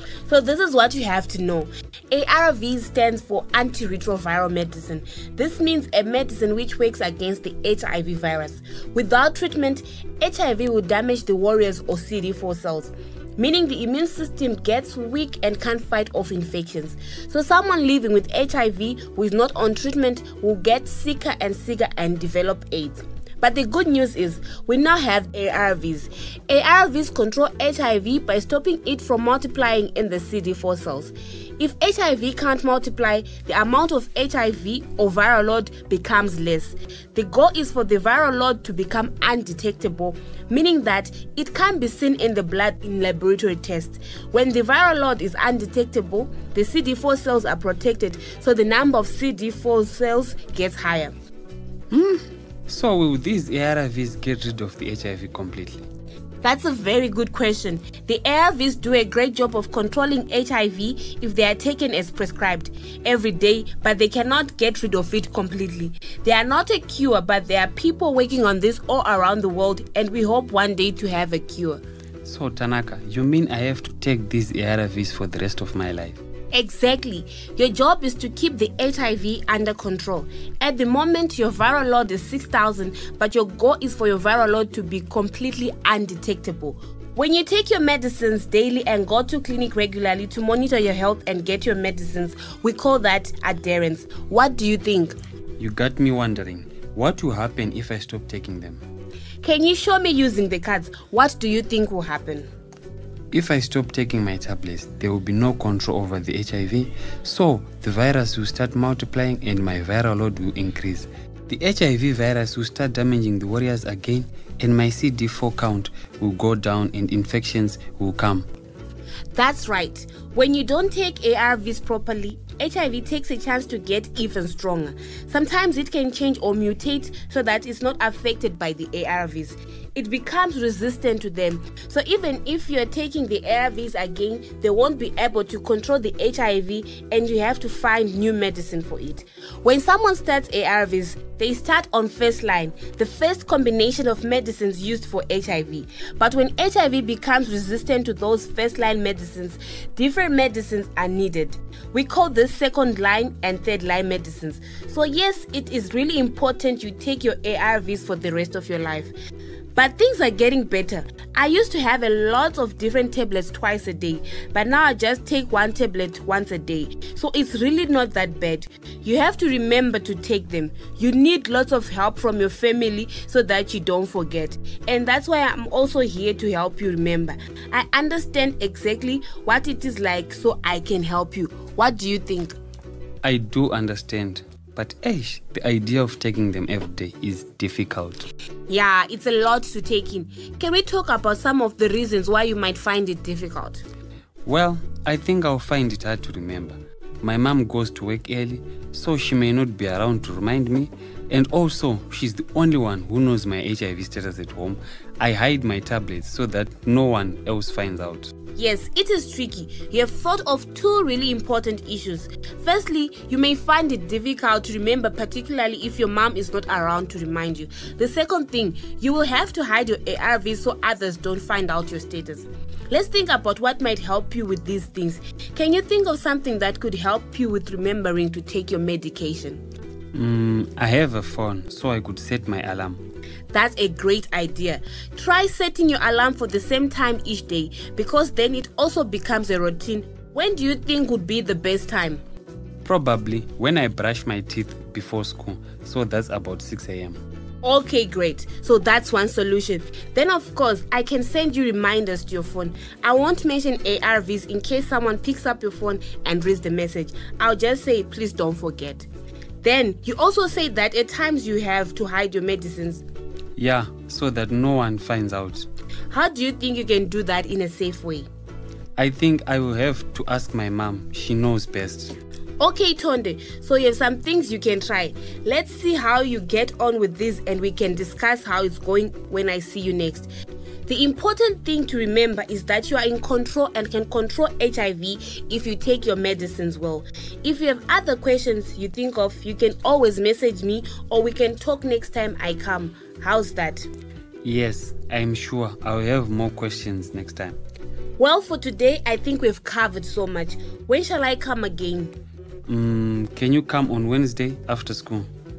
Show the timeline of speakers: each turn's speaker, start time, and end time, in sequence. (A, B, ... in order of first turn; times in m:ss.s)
0:00.3-0:51.1 A
0:51.9-0:55.8 B
0:56.4-1:11.8 A
1:12.2-1:16.2 B
1:16.5-1:35.2 A
1:35.6-1:38.8 B
1:39.4-1:42.5 A
1:43.3-1:58.5 B
1:59.4-2:39.1 A
2:39.8-3:02.6 A
3:03.2-3:08.3 B
3:08.7-3:13.8 A
3:14.4-3:28.3 B
3:28.6-3:49.6 A
3:50.1-3:53.0 B
3:53.5-4:02.2 A
4:02.8-4:07.2 B
4:07.6-4:19.1 A
4:19.6-4:23.0 A
4:23.6-4:25.7 B
4:26.1-4:28.3 A
4:29.0-4:32.1 B
4:32.6-4:40.3 A
4:40.9-4:53.9 A
4:54.4-4:57.6 B
4:58.2-5:02.1 A
5:02.7-5:05.3 B